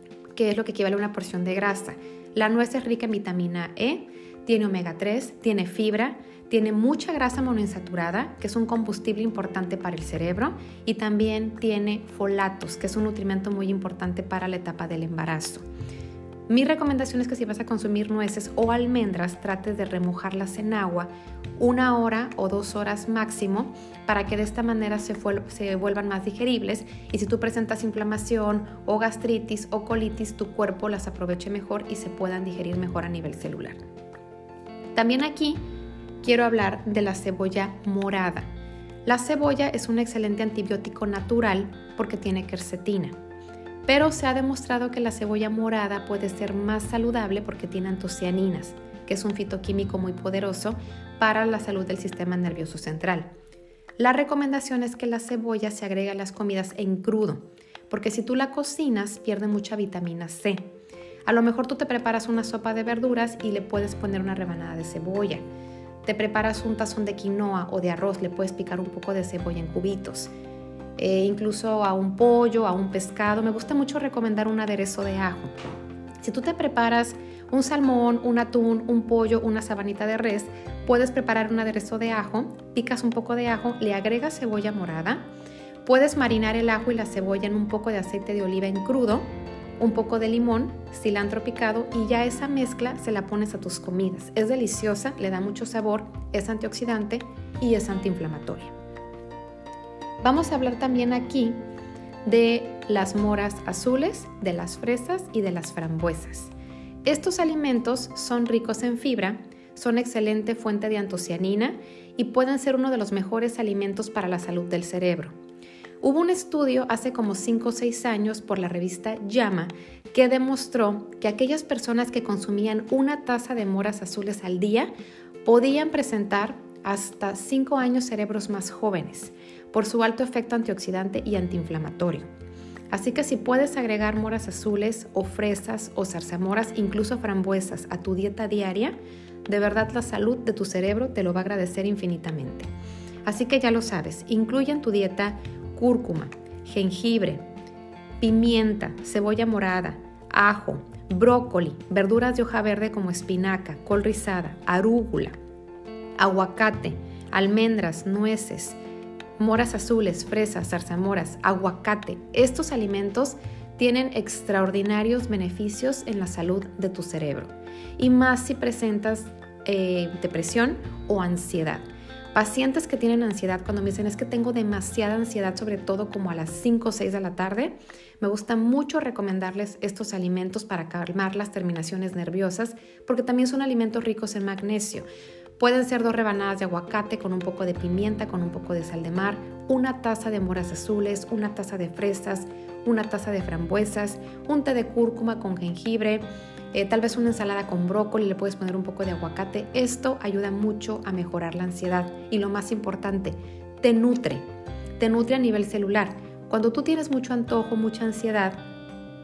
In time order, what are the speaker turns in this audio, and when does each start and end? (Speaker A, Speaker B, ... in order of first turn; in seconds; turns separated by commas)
Speaker A: 0.4-15.6, Speaker A: 16.5-33.8, Speaker A: 35.0-35.6, Speaker A: 36.2-38.5, Speaker A: 39.0-43.2, Speaker A: 43.9-53.3, Speaker A: 54.0-60.7, Speaker A: 61.3-65.4, Speaker A: 66.0-70.3, Speaker A: 71.0-75.5, Speaker A: 76.2-85.3, Speaker A: 85.8-89.3, Speaker A: 89.8-98.7, Speaker A: 100.2-101.6, Speaker A: 102.2-106.5, Speaker A: 107.0-115.3, Speaker A: 116.0-124.9, Speaker A: 125.5-132.3, Speaker A: 132.9-142.7, Speaker A: 143.2-147.4, Speaker A: 148.2-155.4, Speaker A: 156.2-158.8, Speaker A: 159.4-185.1, Speaker A: 185.6-204.4, Speaker A: 205.0-208.7